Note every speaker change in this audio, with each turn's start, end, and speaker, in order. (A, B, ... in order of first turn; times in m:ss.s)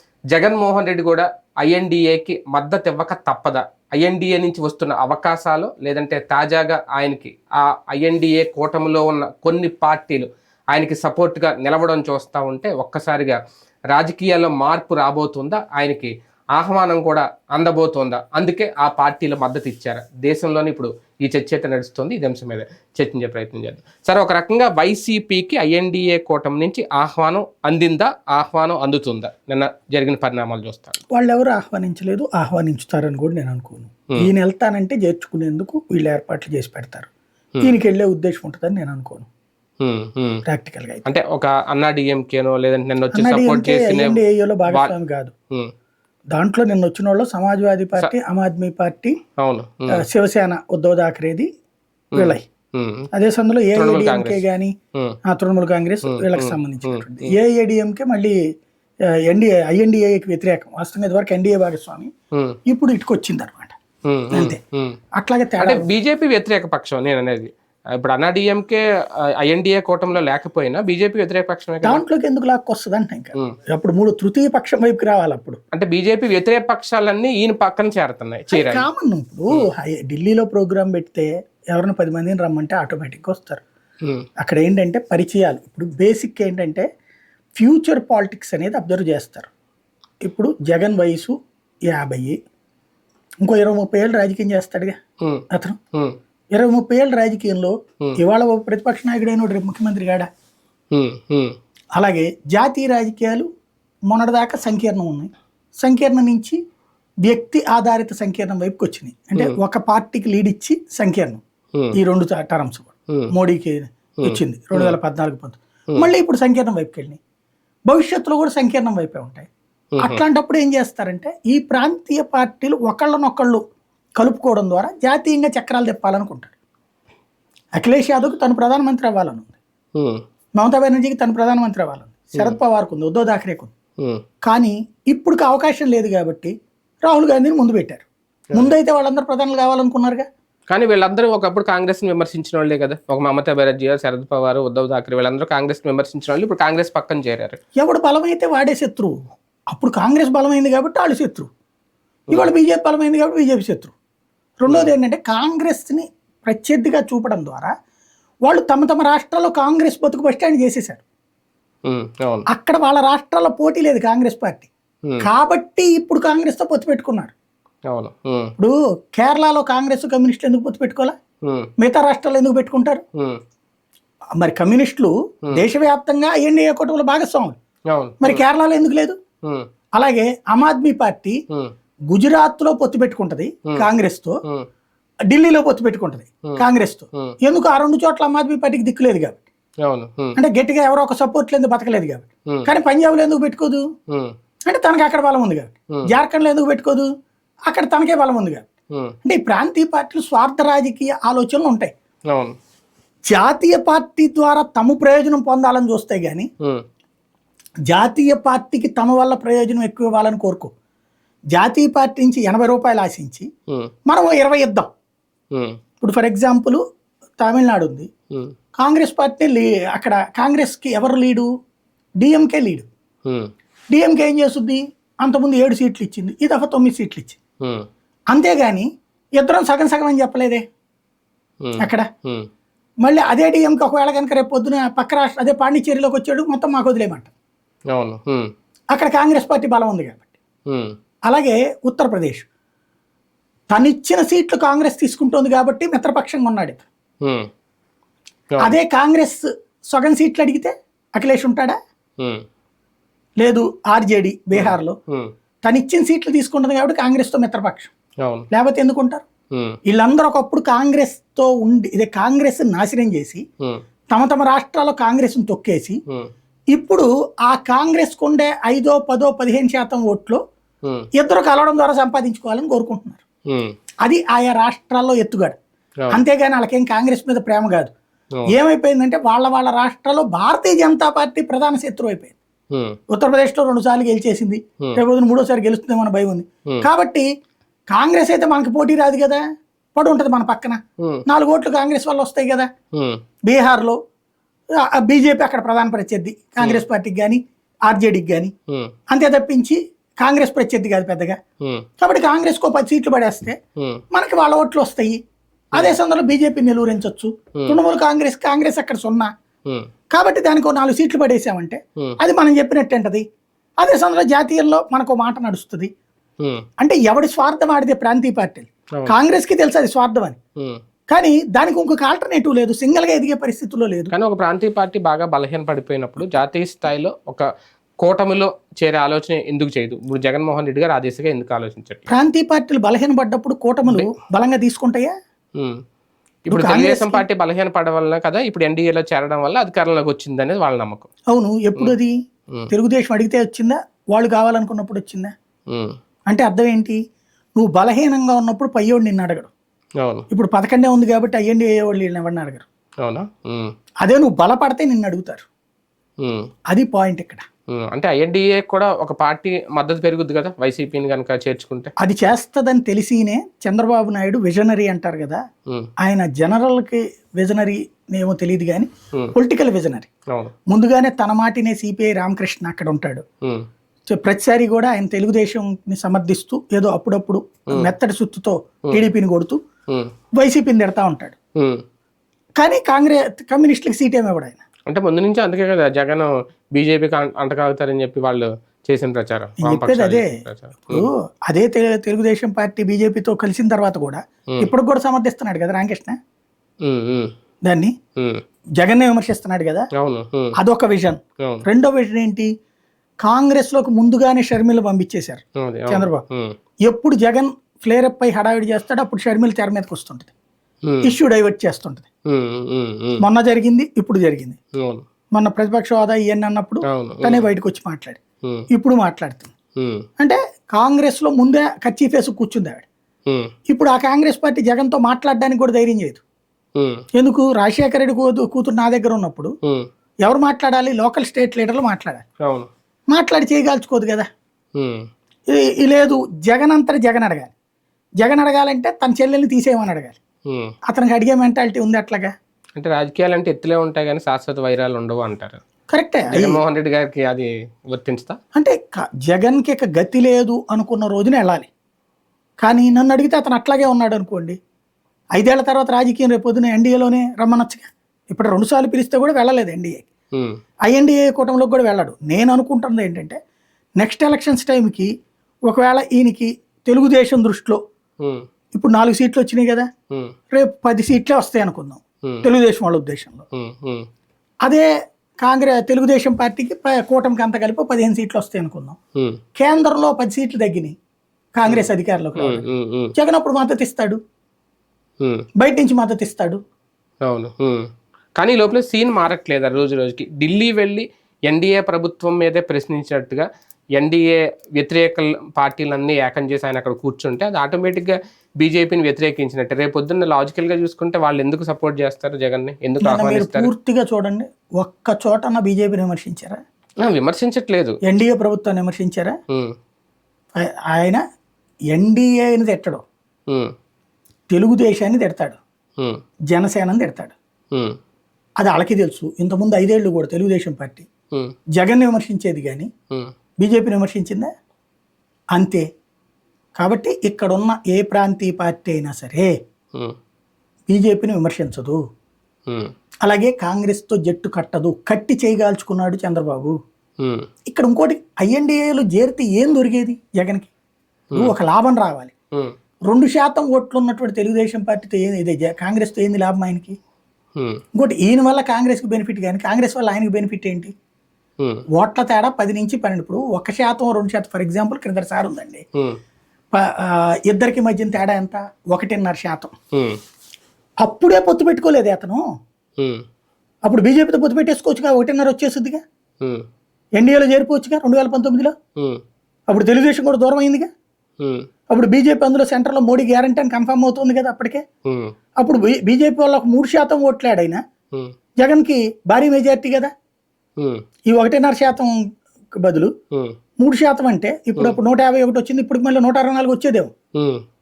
0:00.3-0:13.4 A
0:13.9-0:31.0 A
0:31.1-0:37.1 B
0:37.6-0:39.3 B
0:39.8-0:40.4 A
0:40.4-0:41.0 B
0:41.1-0:44.9 A
0:43.1-0:45.3 B
0:46.3-0:49.2 B
0:49.4-0:50.0 A
0:49.9-0:51.5 B
0:52.2-0:52.4 B
0:52.2-0:53.1 A
0:53.1-0:54.7 B
0:53.7-0:54.4 A
0:55.3-0:58.4 B
0:56.1-0:57.3 A
0:59.2-1:02.1 B
1:02.7-1:03.8 B
1:04.1-1:05.0 A
1:04.3-1:04.6 B
1:05.2-1:05.8 B
1:05.6-1:08.8 A
1:09.4-1:12.0 A
1:11.8-1:15.6 B
1:15.7-1:18.8 A
1:18.5-1:23.6 B
1:24.4-1:26.8 B
1:27.6-1:29.5 B
1:30.2-1:31.4 B
1:31.9-1:32.4 B
1:33.4-1:35.0 B
1:35.2-1:36.2 A
1:35.5-1:35.8 B
1:36.5-1:40.3 B
1:40.9-1:41.6 A
1:42.0-1:43.5 B
1:44.1-1:45.3 B
1:45.8-1:46.6 B
1:47.2-1:51.4 B
1:52.0-1:57.2 B
1:54.2-1:54.9 A
1:57.9-1:59.5 B
2:00.0-2:03.6 B
2:04.2-2:06.5 B
2:07.8-2:09.6 B
2:10.0-2:10.2 A
2:10.6-2:13.7 B
2:14.4-2:16.5 B
2:17.1-2:20.2 B
2:20.7-2:27.6 A
2:27.8-2:31.5 B
2:32.3-2:33.9 B
2:34.6-2:37.7 B
2:38.5-2:41.0 B
2:41.9-2:42.5 A
2:42.5-2:44.7 B
2:45.2-2:47.3 B
2:47.9-2:48.5 A
2:48.6-2:51.1 B
2:51.4-2:51.7 A
2:51.8-2:53.0 B
2:54.4-2:57.6 B
2:57.9-2:58.4 A
2:58.2-2:59.2 B
3:00.0-3:01.4 B
3:02.1-3:04.4 B
3:05.3-3:09.4 B
3:09.8-3:10.4 A
3:10.4-3:13.8 B
3:14.7-3:17.1 B
3:17.7-3:18.6 B
3:19.2-3:21.9 B
3:23.3-3:26.5 B
3:27.9-3:30.7 B
3:31.5-3:33.5 B
3:34.1-3:34.9 B
3:36.0-3:36.8 B
3:37.4-3:38.1 B
3:38.8-3:41.5 B
3:42.2-3:42.9 B
3:43.9-3:47.4 B
3:48.3-3:50.6 B
3:51.6-3:52.5 A
3:51.8-3:52.1 B
3:53.0-3:57.3 B
3:57.9-3:58.5 A
3:58.9-4:00.3 B
4:00.7-4:00.9 A
4:01.3-4:02.4 B
4:03.7-4:06.9 B
4:07.2-4:07.5 A
4:08.6-4:11.8 B
4:13.4-4:15.0 B
4:14.6-4:15.3 A
4:15.6-4:17.9 B
4:18.5-4:19.2 B
4:19.9-4:23.4 B
4:24.1-4:26.0 B
4:26.7-4:30.4 B
4:31.2-4:33.2 B
4:34.0-4:35.6 B
4:36.1-4:37.9 B
4:38.5-4:42.4 B
4:42.7-4:43.0 A
4:43.1-4:47.3 B
4:47.9-4:49.4 B
4:49.9-4:52.7 B
4:53.0-4:53.2 A
4:53.5-4:54.0 B
4:54.8-4:58.5 B
4:59.1-5:01.4 B
5:02.0-5:03.6 B
5:04.1-5:05.2 B
5:05.7-5:09.3 B
5:10.1-5:13.2 B
5:13.8-5:15.9 B
5:16.8-5:20.4 B
5:21.1-5:24.1 B
5:24.1-5:27.4 A
5:28.0-5:32.1 A
5:32.1-5:35.1 B
5:36.5-5:41.1 A
5:36.5-5:37.2 B
5:41.3-5:42.1 B
5:42.7-5:45.3 B
5:45.7-5:46.0 A
5:46.3-5:47.0 B
5:47.6-5:49.5 B
5:50.0-5:50.3 A
5:50.3-5:52.6 B
5:53.0-5:53.7 A
5:54.0-5:55.5 B
5:56.2-5:56.5 A
5:56.7-5:57.4 B
5:57.7-6:01.9 A
6:02.0-6:05.4 B
6:06.0-6:10.1 B
6:10.7-6:13.2 B
6:14.1-6:19.6 B
6:20.4-6:21.4 B
6:22.6-6:24.6 B
6:24.9-6:31.1 A
6:29.6-6:30.3 B
6:30.9-6:36.2 B
6:36.8-6:37.3 A
6:37.6-6:37.9 B
6:38.8-6:39.9 B
6:40.0-6:40.5 A
6:40.6-6:42.5 B
6:43.2-6:46.2 B
6:45.6-6:46.6 A
6:46.9-6:50.3 B
6:50.9-6:51.1 A
6:51.0-6:52.1 B
6:52.3-6:53.2 A
6:53.2-6:54.6 B
6:55.3-6:58.2 B
6:56.9-6:57.4 A
6:58.7-6:59.5 B
6:59.8-7:00.0 A
7:00.2-7:02.9 B
7:03.7-7:06.2 B
7:06.8-7:07.0 A
7:07.1-7:09.5 B
7:10.2-7:12.2 B
7:13.1-7:14.3 B
7:14.8-7:15.1 A
7:15.5-7:17.5 B
7:18.2-7:20.2 B
7:20.5-7:20.8 A
7:20.9-7:22.3 B
7:22.8-7:25.6 A
7:25.9-7:26.6 B
7:26.3-7:28.4 A
7:28.6-7:31.7 B
7:32.6-7:34.6 B
7:35.4-7:40.1 B
7:40.9-7:43.4 B
7:44.0-7:45.1 B
7:45.7-7:47.8 B
7:48.8-7:49.9 B
7:50.5-7:53.4 B
7:53.5-7:54.1 A
7:55.4-7:59.0 B
7:59.6-8:01.0 B
8:01.6-8:02.6 B
8:01.7-8:03.1 A
8:03.2-8:04.2 B
8:05.6-8:06.6 B
8:07.2-8:07.9 A
8:08.4-8:13.5 A
8:14.0-8:23.7 A
8:23.0-8:26.6 B
8:27.0-8:28.0 A
8:28.1-8:29.4 B
8:30.6-8:31.2 B
8:31.9-8:33.0 B
8:34.5-8:35.6 B
8:36.5-8:37.4 B
8:38.6-8:41.1 B
8:41.8-8:42.9 B
8:43.6-8:44.5 B
8:45.6-8:45.9 B
8:46.8-8:49.5 B
8:50.9-8:52.0 B
8:53.2-8:56.8 B
8:57.2-8:57.5 A
8:57.7-9:00.7 B
9:01.4-9:02.3 B
9:03.1-9:07.0 B
9:07.6-9:07.8 A
9:08.0-9:10.9 B
9:12.0-9:15.8 B
9:16.7-9:19.7 B
9:19.9-9:20.2 A
9:21.0-9:22.4 B
9:23.0-9:23.2 A
9:23.8-9:26.0 B
9:27.2-9:28.7 B
9:29.7-9:30.9 B
9:31.4-9:31.7 A
9:31.9-9:34.8 B
9:35.1-9:35.3 A
9:35.6-9:37.8 B
9:38.6-9:40.1 B
9:41.3-9:42.1 B
9:42.8-9:43.1 B
9:43.8-9:47.1 B